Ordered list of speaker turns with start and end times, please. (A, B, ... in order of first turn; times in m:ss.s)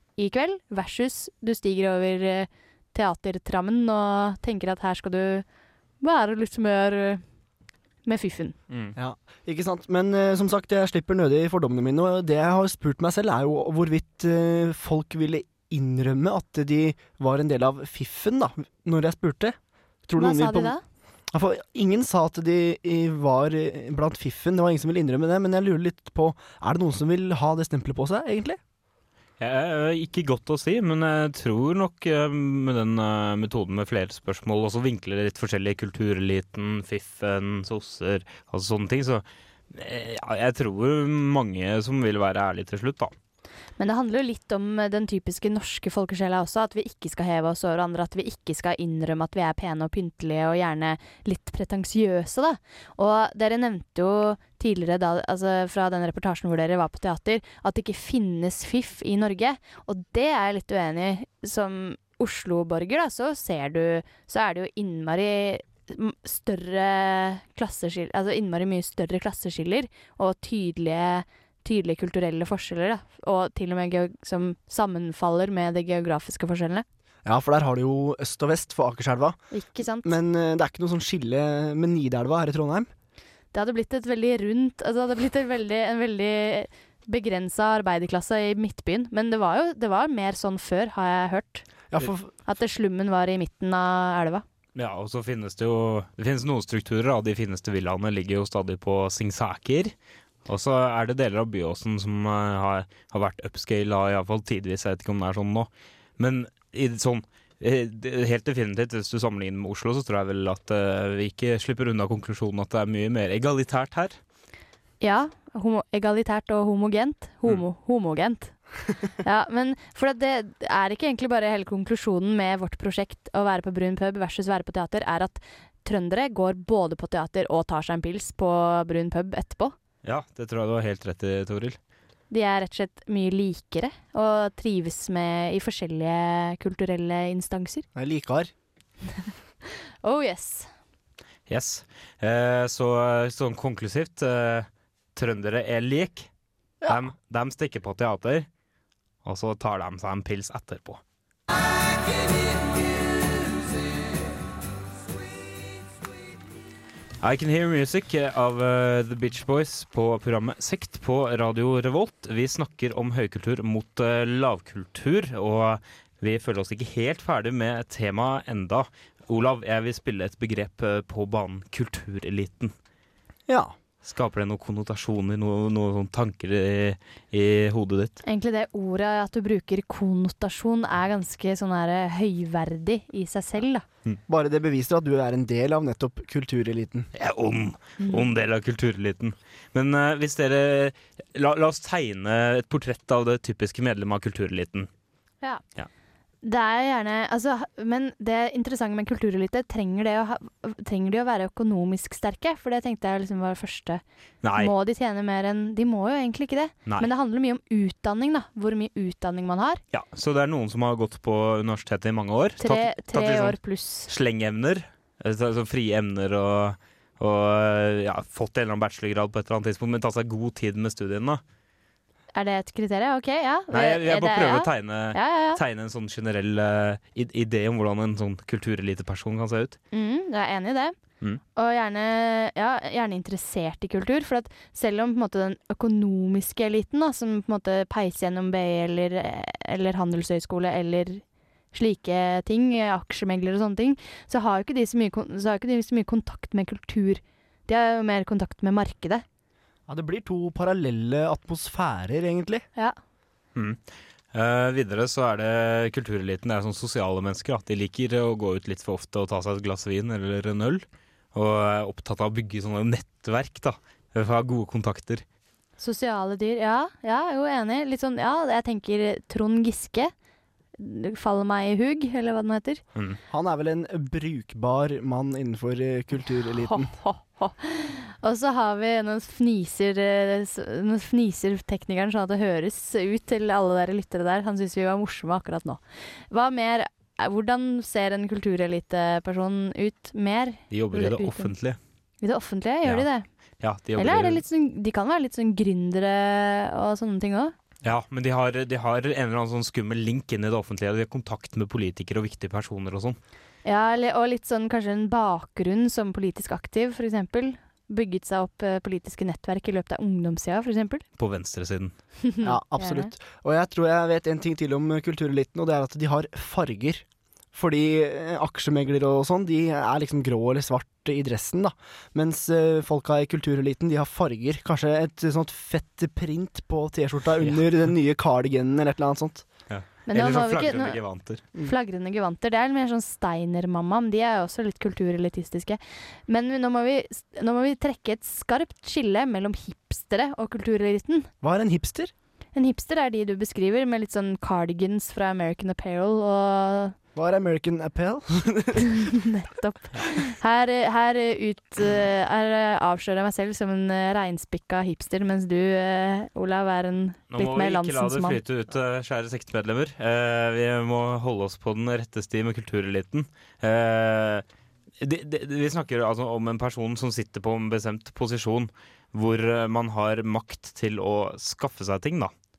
0:00.2-0:05.4 A
0:06.0-0:07.2 A
0:08.1-0:08.6 A
0:08.7-0:09.0 B
0:09.0-0:19.6 C
0:20.1-0:20.7 C
0:20.2-0:20.8 A
0:21.3-0:28.6 C
0:29.4-0:43.1 B
0:43.8-1:16.8 A
1:17.2-1:19.4 C
1:19.5-1:20.2 A
1:20.0-1:22.9 C
1:23.5-1:31.7 A
1:31.9-1:32.4 C
1:32.5-1:34.4 A
1:34.8-1:39.9 B
1:40.5-1:54.2 B
1:55.0-1:58.6 A
1:59.2-2:09.8 A
2:10.0-2:11.8 B
2:12.3-2:17.9 A
2:18.0-2:18.5 C
2:20.0-2:20.7 A
2:21.5-2:26.3 B
2:26.8-2:28.5 B
2:29.2-2:31.0 B
2:37.2-2:52.7 B
2:53.5-2:53.7 C
2:54.0-2:58.2 B
2:58.2-3:03.8 A
3:04.3-3:07.1 C
3:07.2-3:14.9 B
3:08.0-3:08.3 A
3:16.4-3:24.0 A
3:24.4-3:24.7 B
3:24.6-3:29.8 A
3:29.9-3:41.4 B
3:32.6-3:34.1 A
3:42.3-3:45.6 A
3:43.7-3:49.8 B
3:49.9-3:51.0 A
3:51.6-4:09.2 A
4:09.9-4:12.6 C
4:13.6-4:13.8 B
4:14.3-4:25.2 B
4:25.8-4:30.1 A
4:30.8-4:32.8 A
4:33.3-4:36.9 C
4:36.6-4:51.5 A
4:50.7-4:51.8 B
4:52.2-4:53.3 A
4:53.6-4:54.4 B
4:54.0-4:57.5 A
4:57.8-5:03.2 B
5:03.6-5:11.0 A
5:11.2-5:11.9 B
5:12.2-5:13.1 A
5:12.4-5:29.4 C
5:29.7-5:31.4 B
5:30.1-5:31.0 A
5:31.6-5:41.3 A
5:41.4-5:42.1 C
5:42.6-5:47.0 A
5:47.2-5:49.1 C
5:49.2-5:58.4 A
5:57.3-6:04.4 B
6:05.0-6:12.3 B